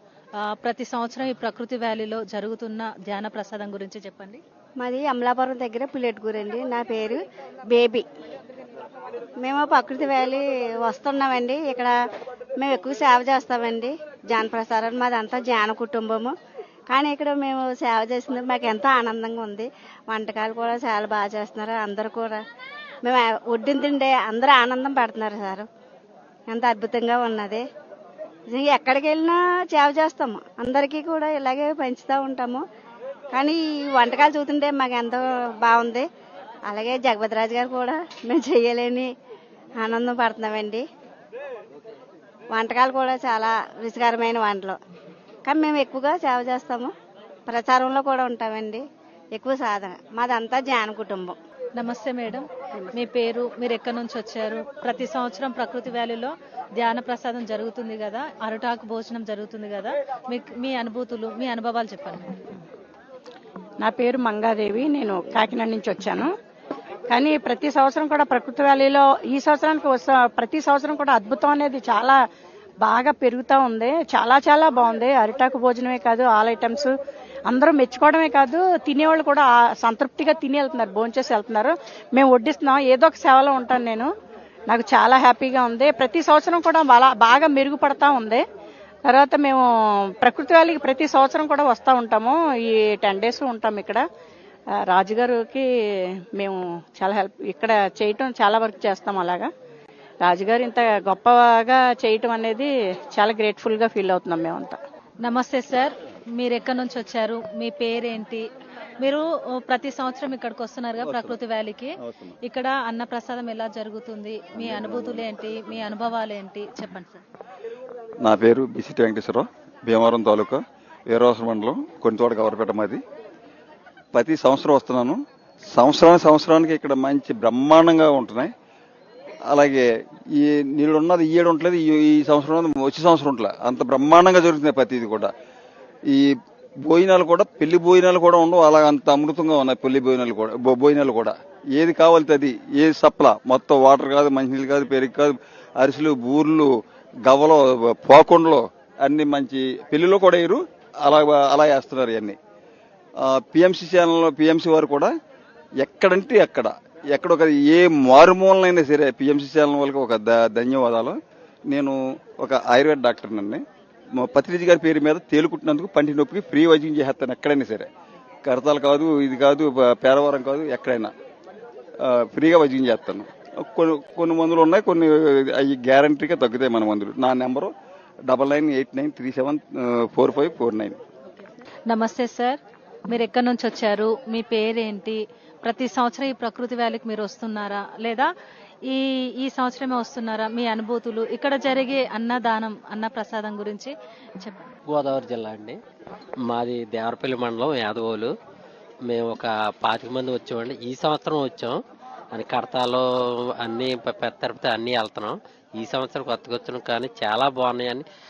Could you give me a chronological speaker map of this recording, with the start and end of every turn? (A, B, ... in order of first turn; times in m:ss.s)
0:00.4-0:04.4 A
0:04.8-0:08.1 B
0:09.4-0:11.9 B
0:12.6-0:16.3 B
0:16.9-0:22.4 B
0:23.0-0:25.7 B
0:26.5-0:27.6 B
0:28.5-0:32.6 B
0:33.3-0:36.1 B
0:36.7-0:39.1 B
0:39.8-0:40.8 B
0:42.5-0:44.8 B
0:45.5-0:46.9 B
0:47.5-0:48.8 B
0:49.4-0:51.4 B
0:51.8-1:02.4 A
1:03.8-1:06.3 C
1:07.1-1:12.2 C
1:12.8-1:16.9 C
1:17.5-1:24.1 C
1:24.7-1:28.4 C
1:29.1-1:29.6 C
1:30.2-1:34.0 C
1:34.8-1:35.6 C
1:36.4-1:39.5 C
1:40.2-1:44.8 C
1:45.2-1:48.5 A
1:49.0-1:57.2 A
1:51.0-1:51.4 D
1:52.0-1:52.4 D
1:54.6-1:55.2 D
1:58.2-2:03.0 D
2:04.1-2:05.2 D
2:05.7-2:08.5 D
2:09.5-2:15.3 D
2:16.1-2:16.4 D
2:16.9-2:26.7 D
2:27.3-2:32.4 D
2:33.2-2:35.1 D
2:35.8-2:41.2 D
2:41.7-2:43.6 D
2:44.2-2:47.9 D
2:48.4-2:51.1 D
2:52.0-2:57.7 D
2:58.3-3:01.0 D
3:01.9-3:08.3 A
3:08.9-3:14.6 A
3:14.9-3:15.8 E
3:16.5-3:18.3 E
3:19.1-3:21.8 E
3:22.3-3:23.1 E
3:23.6-3:28.0 E